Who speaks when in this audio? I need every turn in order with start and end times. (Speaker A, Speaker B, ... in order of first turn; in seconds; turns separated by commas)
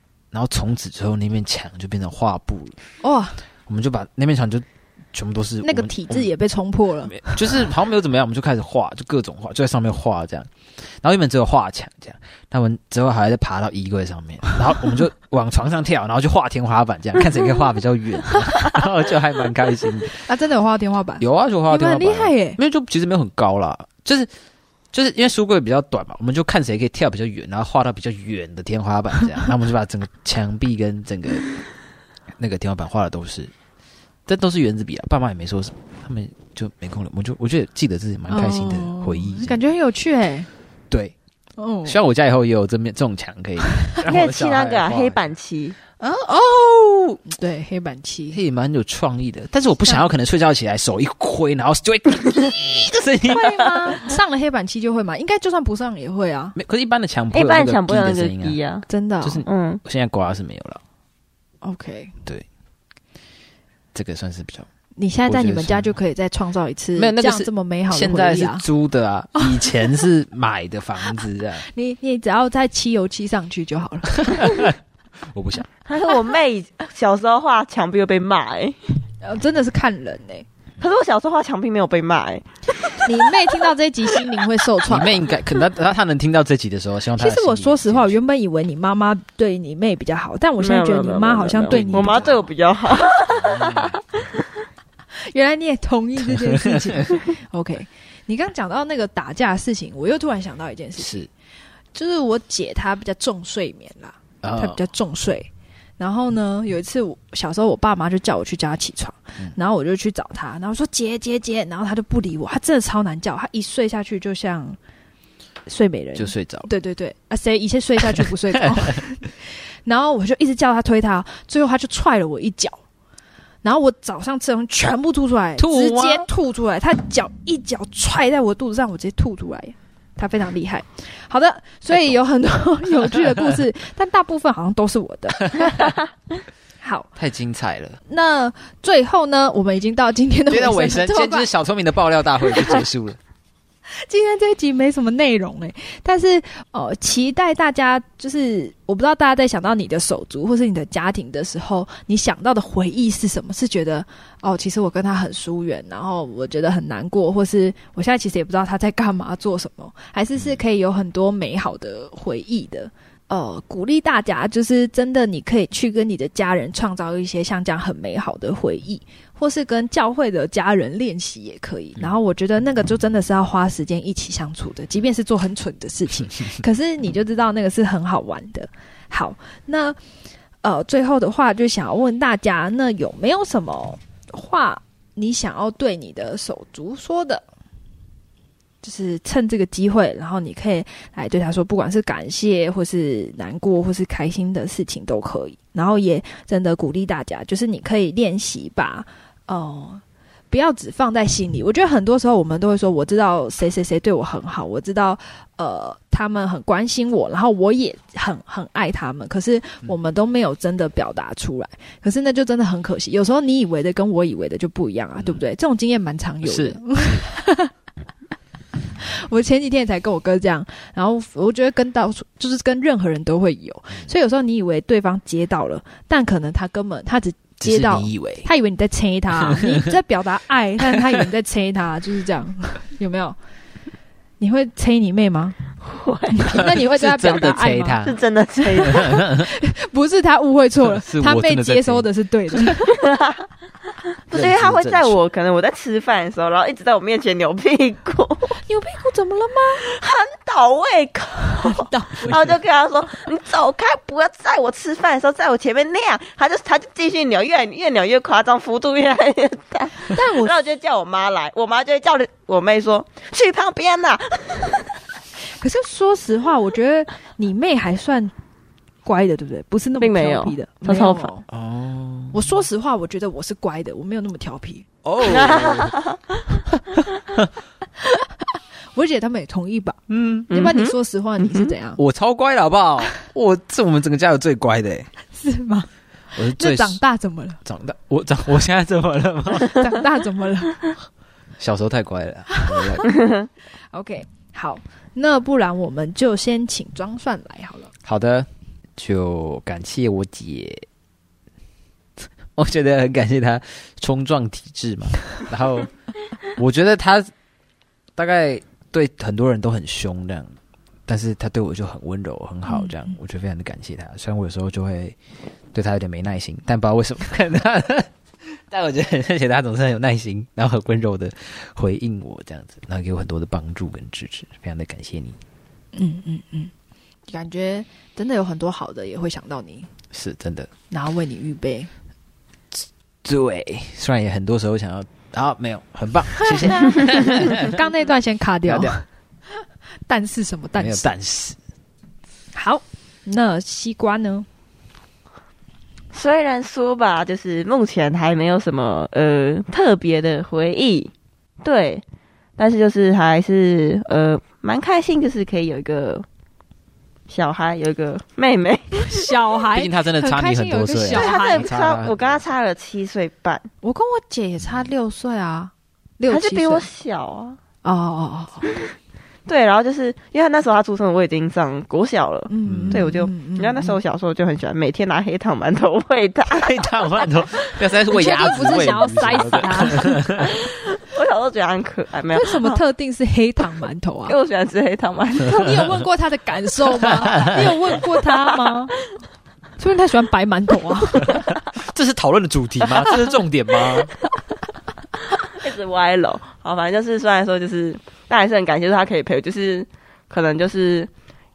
Speaker A: 0.3-2.8, Speaker B: 3.0-3.4, Speaker A: 3.7-6.3, Speaker B: 5.6-7.4, Speaker A: 7.0-20.2, Speaker B: 20.2-22.6, Speaker A: 21.2-24.3, Speaker A: 24.9-31.5, Speaker A: 32.4-33.5, Speaker A: 34.3-39.6, Speaker B: 38.3-40.5, Speaker A: 40.9-41.1, Speaker B: 41.6-42.0, Speaker A: 41.9-45.3, Speaker C: 44.0-45.8, Speaker A: 46.0-47.2, Speaker B: 47.3-48.4, Speaker A: 48.3-53.9, Speaker B: 53.3-56.6, Speaker A: 56.6-58.6, Speaker C: 57.3-58.9, Speaker B: 58.9-59.5, Speaker A: 59.2-60.8, Speaker C: 59.5-59.8, Speaker B: 61.6-62.1, Speaker A: 63.9-64.7, Speaker B: 65.0-68.6, Speaker A: 65.3-65.9, Speaker A: 67.0-71.7, Speaker B: 69.4-69.8, Speaker B: 71.7-74.7, Speaker A: 74.2-74.8, Speaker A: 75.3-75.7, Speaker C: 75.9-78.8, Speaker B: 79.2-80.5, Speaker C: 80.8-83.3, Speaker B: 83.0-85.4, Speaker A: 84.9-88.2, Speaker B: 87.2-92.3, Speaker C: 90.6-94.4, Speaker A: 91.7-92.5, Speaker A: 93.3-94.0, Speaker B: 95.2-101.2, Speaker A: 96.2-97.1, Speaker A: 101.0-101.3, Speaker B: 101.9-114.8, Speaker A: 104.4-104.8, Speaker B: 115.7-122.8, Speaker A: 116.2-116.7, Speaker A: 118.1-119.0, Speaker B: 123.6-136.0, Speaker A: 125.6-126.3, Speaker B: 136.8-137.1, Speaker A: 137.2-138.0, Speaker B: 138.1-141.5, Speaker A: 140.5-143.2, Speaker B: 144.0-180.0, Speaker B: 180.6-187.4, Speaker B: 188.8-217.7, Speaker A: 216.4-217.3, Speaker B: 219.0-233.4, Speaker A: 227.6-228.5, Speaker A: 229.4-229.9, Speaker B: 234.4-235.6, Speaker C: 235.8-236.6, Speaker B: 236.3-238.0, Speaker A: 236.5-238.2, Speaker C: 238.0-239.2, Speaker B: 238.7-243.1, Speaker A: 238.7-239.5, Speaker A: 240.8-242.6, Speaker C: 242.9-243.5, Speaker C: 244.3-248.6, Speaker A: 244.3-245.2, Speaker B: 248.6-249.9, Speaker C: 249.8-265.0, Speaker B: 251.6-252.4, Speaker B: 260.0-260.5, Speaker B: 265.6-268.3, Speaker B: 269.1-271.5, Speaker C: 270.0-271.3, Speaker A: 271.5-272.4, Speaker B: 272.3-274.9, Speaker A: 275.0-276.0, Speaker C: 275.2-276.6, Speaker A: 277.0-277.5, Speaker B: 278.9-282.0, Speaker A: 280.1-280.5, Speaker C: 280.5-280.9, Speaker A: 282.0-285.1, Speaker B: 285.4-287.6, Speaker A: 286.4-287.0, Speaker A: 287.6-289.9, Speaker B: 289.6-290.8, Speaker A: 291.6-293.2, Speaker B: 292.5-293.2, Speaker C: 293.1-293.5, Speaker B: 293.9-297.9, Speaker A: 298.0-300.9, Speaker A: 302.6-305.9, Speaker A: 306.5-307.3, Speaker A: 308.2-310.5, Speaker A: 311.1-315.2, Speaker B: 312.7-313.0, Speaker A: 315.7-325.4, Speaker B: 325.9-326.7, Speaker B: 327.3-329.9, Speaker A: 330.1-330.7, Speaker B: 330.9-331.9, Speaker A: 332.7-337.8, Speaker B: 336.4-339.1, Speaker A: 338.7-339.0, Speaker B: 340.1-341.1, Speaker A: 340.8-341.6, Speaker B: 342.6-344.5, Speaker C: 346.1-352.0, Speaker C: 352.6-356.2, Speaker C: 357.3-359.3, Speaker B: 358.9-361.7, Speaker A: 359.7-362.4, Speaker C: 361.1-363.7, Speaker B: 363.8-366.9, Speaker C: 366.3-367.6, Speaker B: 367.8-368.7, Speaker C: 369.5-377.8, Speaker B: 372.5-374.0, Speaker A: 372.6-373.2, Speaker A: 376.5-380.6, Speaker B: 378.1-380.2, Speaker C: 380.6-382.8, Speaker B: 382.3-384.4, Speaker C: 384.3-385.7, Speaker B: 385.4-388.9, Speaker A: 387.0-387.8, Speaker B: 389.8-391.5, Speaker A: 391.5-394.1, Speaker C: 395.5-401.1